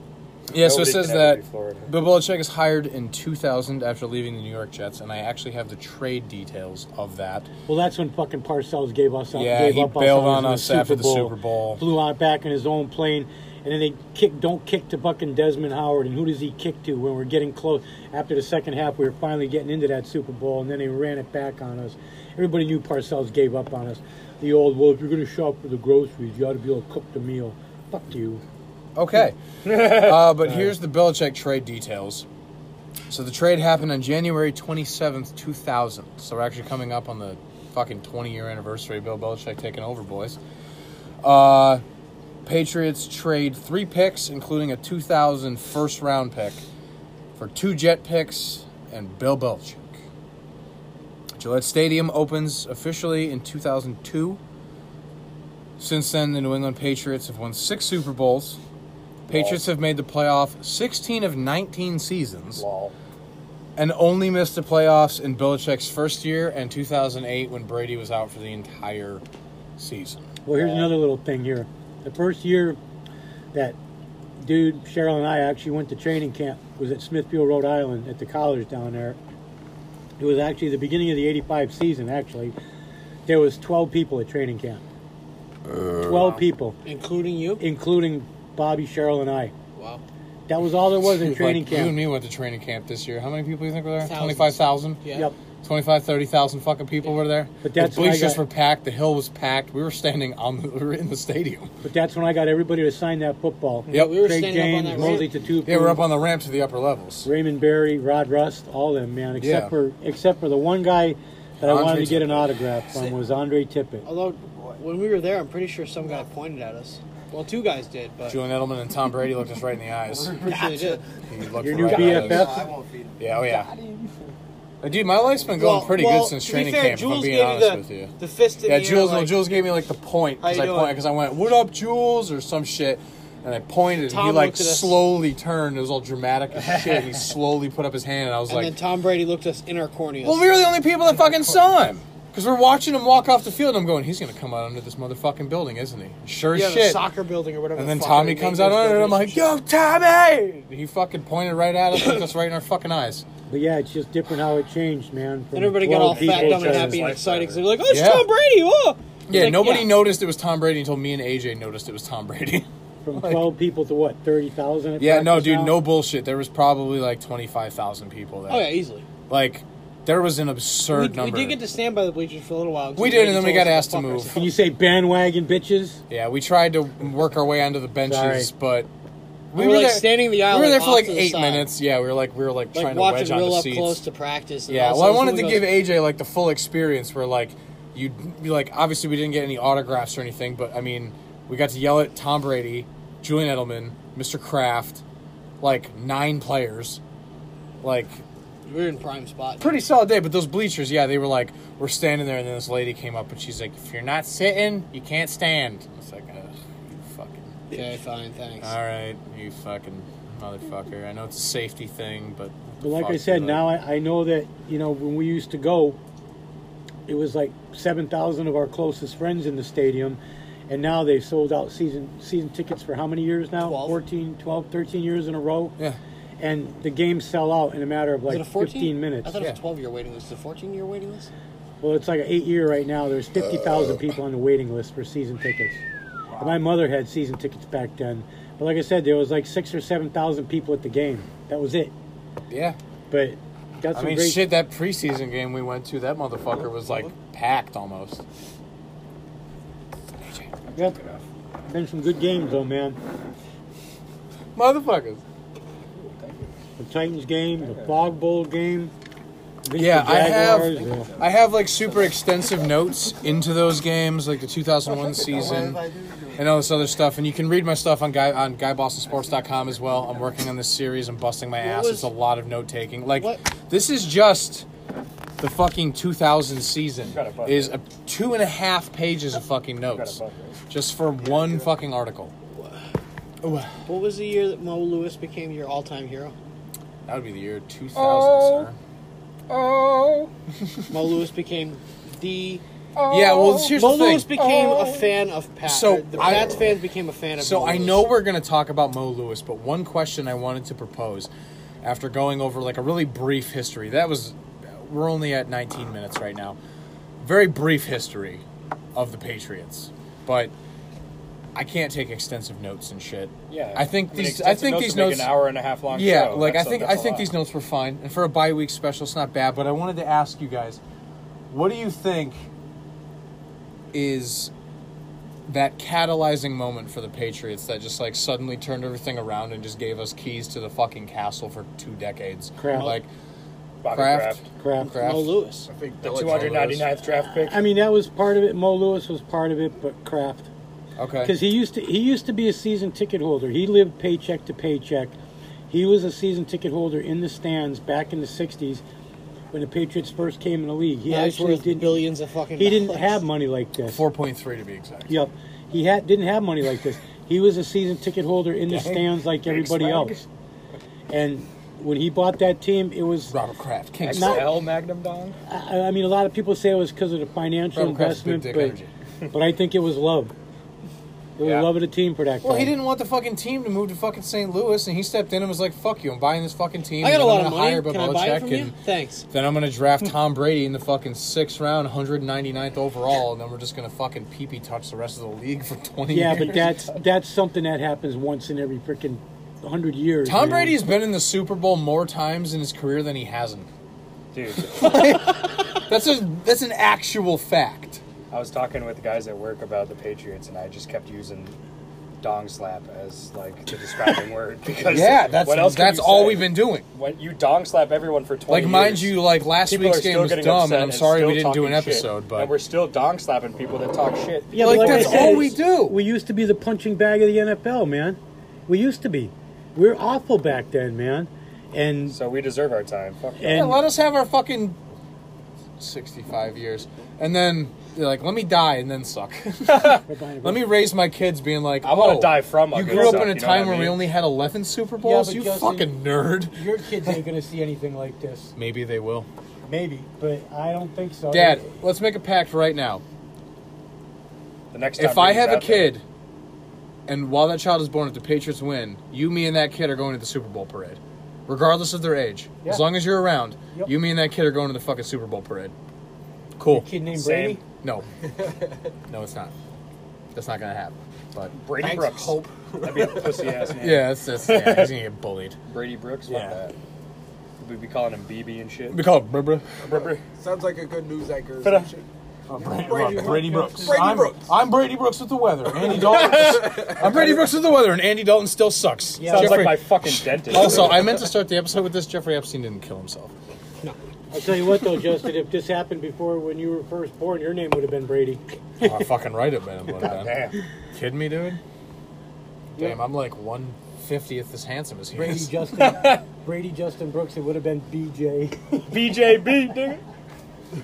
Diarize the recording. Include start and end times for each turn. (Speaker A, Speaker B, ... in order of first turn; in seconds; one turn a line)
Speaker A: 0.5-7.5
Speaker B: 0.5-1.9
Speaker C: 7.7-28.4
Speaker A: 9.3-11.8
Speaker A: 28.9-32.2
Speaker C: 30.4-30.7
Speaker A: 33.1-40.4
Speaker A: 41.2-41.8
Speaker A: 42.4-46.6
Speaker A: 47.4-50.0
Speaker A: 51.4-54.4
Speaker A: 55.8-58.6
Speaker B: 59.3-59.6
Speaker A: 59.3-62.6
Speaker B: 62.5-62.9
Speaker A: 63.8-69.2
Speaker A: 69.8-70.3
Speaker C: 70.4-72.8
Speaker B: 70.5-70.9
Speaker C: 74.4-79.2
Speaker C: 80.2-82.5
Speaker C: 83.3-84.8
Speaker C: 86.0-86.8
Speaker D: 86.8-87.6
Speaker C: 87.6-89.5
Speaker D: 89.8-90.0
Speaker C: 90.5-92.0
Speaker A: 91.1-95.0
Speaker D: 94.0-95.3
Speaker A: 95.6-101.7
Speaker C: 97.6-98.4
Speaker C: 101.8-106.0
Speaker D: 103.9-105.3
Speaker A: 103.9-104.2
Speaker A: 105.0-107.3
Speaker C: 107.2-114.0
Speaker A: 109.4-109.7
Speaker A: 111.6-112.5
Speaker D: 114.0-118.4
Speaker A: 118.3-120.5
Speaker E: 120.1-121.2
Speaker D: 120.3-121.1
Speaker A: 121.3-122.6
Speaker C: 121.6-122.7
Speaker E: 121.8-124.1
Speaker D: 121.9-122.5
Speaker A: 123.2-123.7
Speaker A: 124.8-128.1
Speaker D: 125.5-129.4
Speaker A: 128.6-138.8
Speaker D: 130.4-131.0
Speaker D: 134.1-135.0
Speaker D: 138.5-140.4
Speaker A: 140.2-147.0
Speaker D: 146.5-149.5
Speaker A: 147.7-153.2
Speaker C: 153.5-157.0
Speaker D: 155.5-160.0
Speaker B: 156.1-157.6
Speaker A: 157.9-158.3
Speaker A: 159.3-163.4
Speaker C: 163.0-165.8
Speaker A: 165.0-168.8
Speaker D: 168.5-169.1
Speaker A: 169.3-171.6
Speaker D: 170.9-174.6
Speaker A: 173.0-174.3
Speaker C: 174.3-176.0
Speaker A: 176.1-178.9
Speaker C: 178.0-178.5
Speaker A: 179.5-184.0
Speaker D: 179.5-181.7
Speaker D: 182.7-185.7
Speaker A: 184.7-195.0
Speaker A: 195.6-197.0
Speaker A: 197.8-198.2
Speaker D: 198.7-199.8
Speaker A: 199.6-207.9
Speaker D: 207.7-208.7
Speaker A: 208.6-213.7
Speaker C: 212.8-216.0
Speaker C: 217.1-225.8
Speaker D: 223.6-224.0
Speaker C: 226.4-229.3
Speaker D: 228.3-231.3
Speaker C: 231.8-235.8
Speaker A: 236.3-236.6
Speaker C: 236.4-241.9
Speaker A: 242.5-242.8
Speaker C: 243.1-244.5
Speaker A: 243.9-248.2
Speaker B: 250.7-251.2
Speaker C: 251.7-253.0
Speaker A: 254.5-255.2
Speaker B: 255.9-256.5
Speaker C: 256.8-258.9
Speaker B: 257.6-257.9
Speaker C: 259.6-261.1
Speaker A: 259.7-274.7
Speaker B: 260.7-261.2
Speaker E: 265.1-266.4
Speaker D: 271.6-272.1
Speaker D: 273.1-273.4
Speaker A: 275.4-280.2
Speaker B: 277.1-277.7
Speaker B: 279.9-280.6
Speaker A: 280.7-282.3
Speaker A: 283.4-283.8
Speaker D: 283.9-286.3
Speaker A: 287.1-288.8
Speaker B: 287.9-288.6
Speaker B: 289.5-290.3
Speaker A: 290.6-290.9
Speaker D: 290.9-292.6
Speaker B: 292.9-293.8
Speaker A: 293.1-294.3
Speaker D: 293.7-298.1
Speaker B: 294.3-295.1
Speaker A: 295.6-296.7
Speaker A: 297.4-301.3
Speaker A: 301.8-306.6
Speaker A: 307.2-308.4
Speaker A: 308.9-310.5
Speaker A: 311.5-315.4
Speaker B: 313.5-317.3
Speaker A: 315.9-320.8
Speaker A: 321.5-322.4
Speaker A: 323.9-324.5
Speaker A: 325.5-333.1
Speaker C: 332.6-333.0
Speaker B: 333.8-334.4
Speaker A: 333.9-335.3
Speaker C: 334.6-334.9
Speaker D: 334.8-335.7
Speaker E: 335.7-336.9
Speaker B: 336.0-337.6
Speaker C: 337.2-340.5
Speaker A: 341.0-341.4
Speaker C: 341.2-345.1
Speaker C: 345.7-348.8
Speaker C: 349.5-352.1
Speaker D: 351.1-353.2
Speaker C: 352.6-354.0
Speaker A: 353.9-355.1
Speaker C: 355.1-360.2
Speaker A: 358.7-360.1
Speaker B: 359.6-360.1
Speaker C: 361.1-363.3
Speaker A: 363.3-364.6
Speaker B: 364.0-365.4
Speaker C: 364.1-364.4
Speaker C: 365.5-368.8
Speaker A: 367.7-368.9
Speaker C: 369.3-370.3
Speaker C: 371.4-372.7
Speaker A: 371.4-371.7
Speaker A: 372.4-378.7
Speaker D: 377.0-379.2
Speaker A: 379.3-386.6
Speaker C: 386.1-390.8
Speaker B: 386.4-386.9
Speaker A: 390.2-393.7
Speaker B: 394.3-395.2
Speaker A: 394.6-398.0
Speaker B: 398.3-401.6
Speaker B: 402.2-415.6
Speaker A: 404.8-406.8
Speaker A: 408.5-412.5
Speaker C: 414.5-422.1
Speaker A: 414.6-416.0
Speaker B: 422.1-423.8
Speaker C: 423.4-423.8
Speaker A: 423.5-424.8
Speaker A: 425.8-436.6
Speaker C: 430.1-430.7
Speaker B: 431.8-434.1
Speaker C: 432.8-433.3
Speaker C: 435.0-435.9
Speaker C: 436.5-438.5
Speaker A: 438.6-439.3
Speaker C: 439.6-441.7
Speaker A: 441.3-443.0
Speaker B: 444.7-445.9
Speaker A: 445.0-446.0
Speaker A: 447.1-455.7
Speaker A: 456.6-456.9
Speaker C: 456.7-457.6
Speaker B: 457.1-457.6
Speaker E: 458.3-458.7
Speaker A: 459.1-459.5
Speaker A: 460.3-461.9
Speaker B: 461.5-464.9
Speaker E: 461.7-463.7
Speaker A: 463.8-465.6
Speaker B: 465.7-466.7
Speaker A: 466.3-466.6
Speaker B: 467.6-469.0
Speaker A: 468.9-469.8
Speaker E: 469.8-471.9
Speaker B: 469.9-470.2
Speaker B: 471.6-472.0
Speaker A: 472.5-483.3
Speaker C: 472.6-474.3
Speaker E: 472.7-474.5
Speaker B: 475.9-476.6
Speaker E: 476.1-477.1
Speaker C: 479.2-479.8
Speaker B: 479.3-481.0
Speaker C: 484.3-488.9
Speaker A: 488.8-491.6
Speaker B: 490.0-490.6
Speaker C: 492.7-493.0
Speaker A: 492.8-495.5
Speaker C: 495.1-498.9
Speaker B: 495.8-496.2
Speaker B: 498.9-500.0